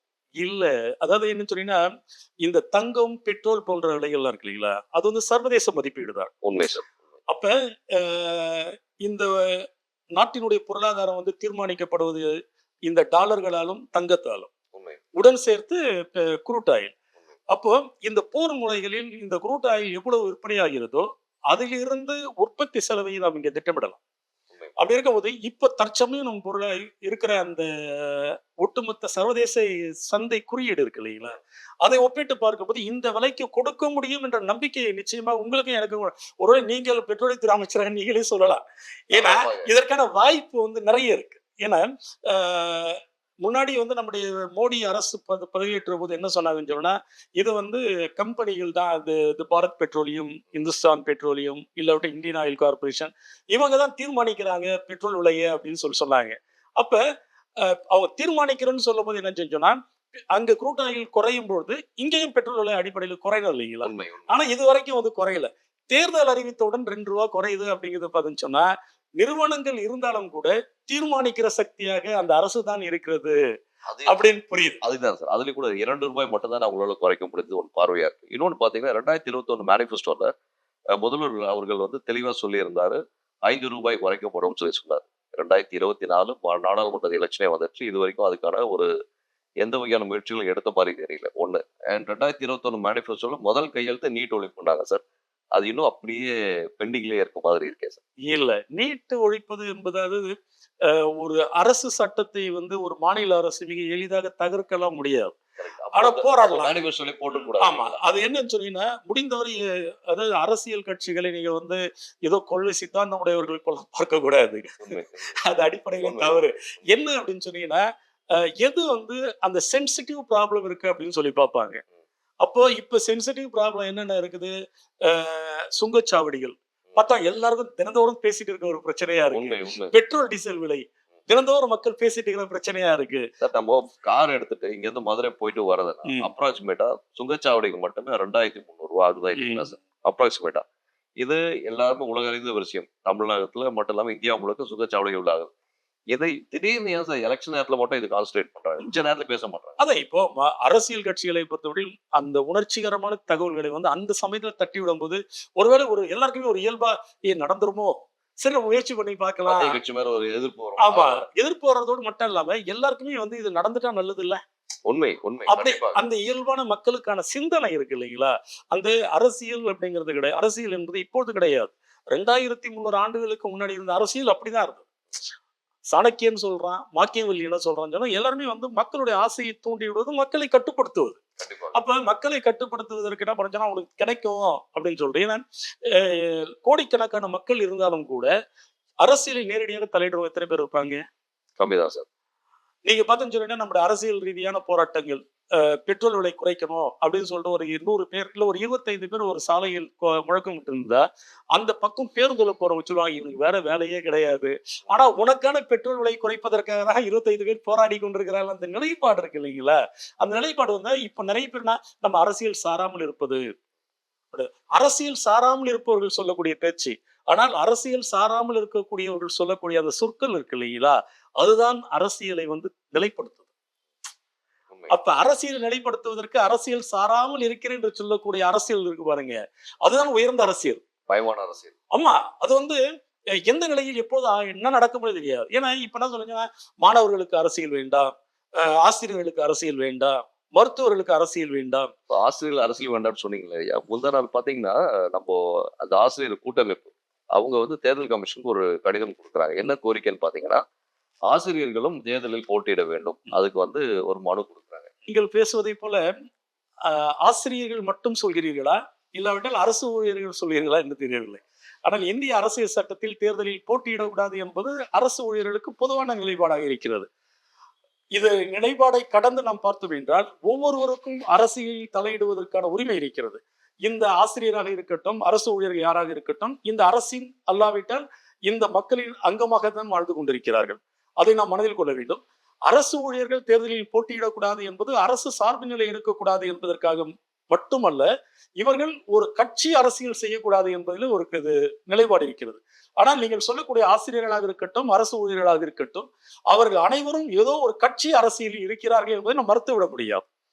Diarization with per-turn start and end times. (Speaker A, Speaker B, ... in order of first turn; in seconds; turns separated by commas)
Speaker A: 0.4-1.8, Speaker A: 2.4-6.3, Speaker B: 6.4-6.9, Speaker A: 7.3-9.7, Speaker A: 10.2-12.3, Speaker A: 12.9-14.5, Speaker B: 14.8-15.0, Speaker A: 15.2-16.9, Speaker A: 17.5-24.0, Speaker A: 24.8-57.0, Speaker B: 39.1-39.7, Speaker A: 57.6-59.8, Speaker A: 60.3-73.4, Speaker B: 63.8-64.3, Speaker B: 73.9-74.2, Speaker A: 74.1-74.8, Speaker B: 74.8-80.3, Speaker B: 81.0-88.9, Speaker B: 89.6-95.0, Speaker B: 95.5-98.0, Speaker A: 98.3-100.3, Speaker A: 100.9-105.3, Speaker B: 105.6-107.9, Speaker A: 106.0-106.7, Speaker A: 107.6-114.9, Speaker B: 114.9-115.3, Speaker A: 115.4-117.8, Speaker B: 116.0-116.4, Speaker A: 118.6-121.8, Speaker A: 122.4-133.3, Speaker B: 129.3-129.9, Speaker B: 133.4-140.6, Speaker A: 139.4-139.7, Speaker B: 141.2-145.5, Speaker B: 146.1-149.8, Speaker A: 149.8-159.8, Speaker B: 159.5-161.2, Speaker A: 160.8-164.4, Speaker B: 164.9-166.0, Speaker A: 165.5-174.8, Speaker A: 175.9-181.2, Speaker B: 181.4-181.8, Speaker A: 181.7-188.3, Speaker A: 189.0-191.0, Speaker B: 191.6-192.1, Speaker A: 192.9-213.4, Speaker A: 214.3-223.4, Speaker B: 224.7-225.0, Speaker A: 224.9-230.8, Speaker B: 231.1-231.7, Speaker A: 231.9-232.8, Speaker A: 233.5-241.9, Speaker B: 242.1-250.6, Speaker B: 251.3-254.9, Speaker A: 255.1-256.0, Speaker A: 256.9-267.1, Speaker A: 268.1-288.1, Speaker A: 288.6-300.2